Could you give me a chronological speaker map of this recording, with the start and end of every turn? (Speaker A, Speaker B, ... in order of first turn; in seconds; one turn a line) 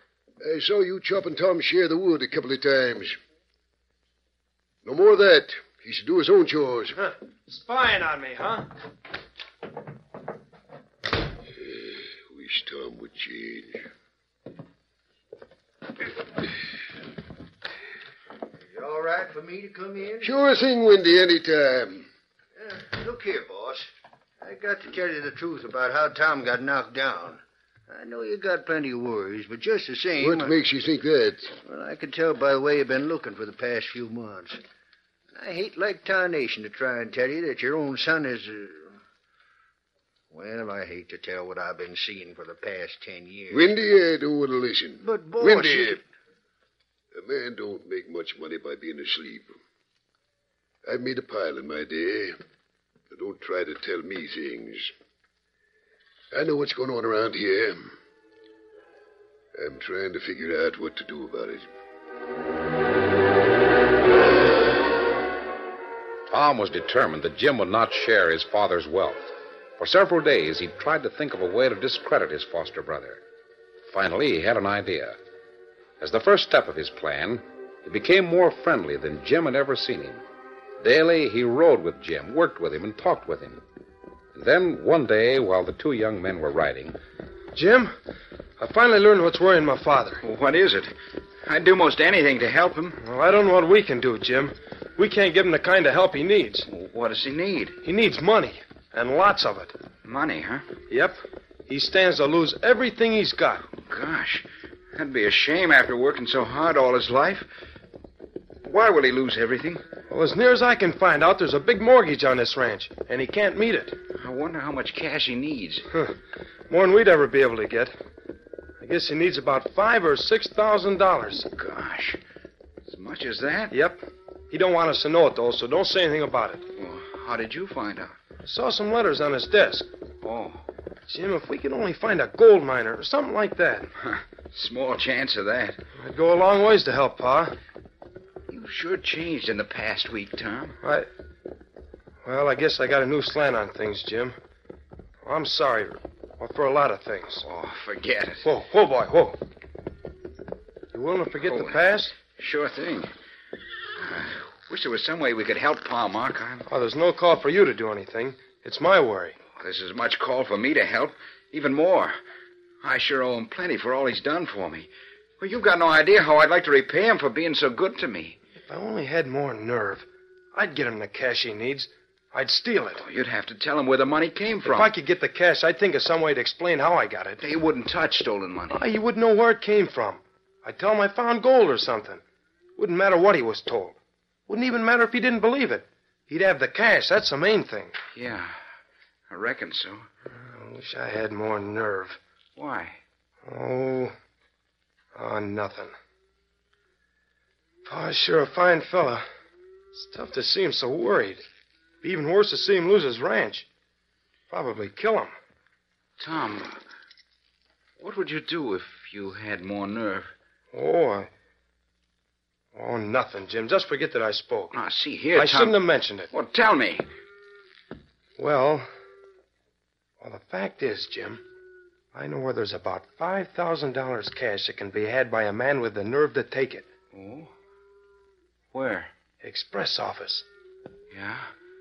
Speaker A: 0.4-3.2
Speaker A: 4.8-7.0
Speaker B: 7.0-8.7
Speaker A: 11.5-13.9
Speaker C: 18.6-20.4
Speaker A: 20.2-22.1
Speaker C: 22.6-30.6
Speaker A: 30.2-31.5
Speaker C: 31.6-34.6
Speaker C: 35.3-39.0
Speaker C: 40.3-43.8
Speaker A: 43.5-46.0
Speaker C: 45.0-46.0
Speaker A: 47.1-49.5
Speaker A: 50.9-52.4
Speaker A: 53.1-54.9
Speaker A: 56.3-57.9
Speaker A: 59.6-61.7
Speaker D: 66.3-73.2
Speaker D: 73.9-75.2
Speaker D: 76.0-80.2
Speaker D: 80.8-83.6
Speaker D: 84.3-87.0
Speaker B: 87.5-87.9
Speaker B: 88.6-90.2
Speaker E: 90.2-90.9
Speaker E: 91.5-93.0
Speaker B: 93.0-96.7
Speaker E: 96.7-97.8
Speaker B: 97.8-99.8
Speaker E: 100.0-100.7
Speaker B: 100.9-103.7
Speaker E: 103.8-107.5
Speaker E: 108.6-109.8
Speaker B: 110.1-114.0
Speaker E: 114.2-115.8
Speaker B: 116.7-117.9
Speaker B: 118.8-121.5
Speaker E: 121.5-122.2
Speaker E: 122.9-123.7
Speaker B: 123.7-126.6
Speaker E: 126.8-128.2
Speaker B: 128.4-129.9
Speaker E: 130.2-130.7
Speaker B: 131.1-133.9
Speaker E: 134.0-135.8
Speaker B: 136.0-137.5
Speaker E: 138.5-140.8
Speaker B: 140.8-141.1
Speaker B: 142.2-144.3
Speaker B: 145.2-147.4
Speaker E: 147.4-148.4
Speaker B: 148.4-149.4
Speaker B: 150.9-152.2
Speaker E: 151.4-153.1
Speaker E: 154.0-156.7
Speaker B: 156.7-159.4
Speaker E: 159.6-162.2
Speaker E: 162.8-168.4
Speaker B: 168.7-173.0
Speaker E: 173.0-174.9
Speaker B: 174.6-177.4
Speaker E: 177.4-178.8
Speaker B: 178.7-182.2
Speaker B: 182.8-184.0
Speaker B: 184.5-187.9
Speaker E: 188.2-188.6
Speaker E: 189.3-190.1
Speaker B: 190.3-192.2
Speaker E: 192.6-193.0
Speaker B: 193.5-194.2
Speaker B: 195.2-195.9
Speaker B: 197.9-199.2
Speaker B: 199.9-201.4
Speaker B: 202.0-203.7
Speaker B: 204.5-205.3
Speaker E: 206.2-206.8
Speaker E: 208.0-210.3
Speaker B: 210.7-211.3
Speaker B: 212.8-214.7
Speaker E: 214.7-215.8
Speaker B: 215.3-216.3
Speaker E: 216.3-217.1
Speaker B: 218.4-218.9
Speaker B: 220.2-221.4
Speaker B: 222.1-226.9
Speaker E: 227.1-227.5
Speaker E: 228.7-229.1
Speaker B: 229.4-230.5
Speaker E: 231.1-231.5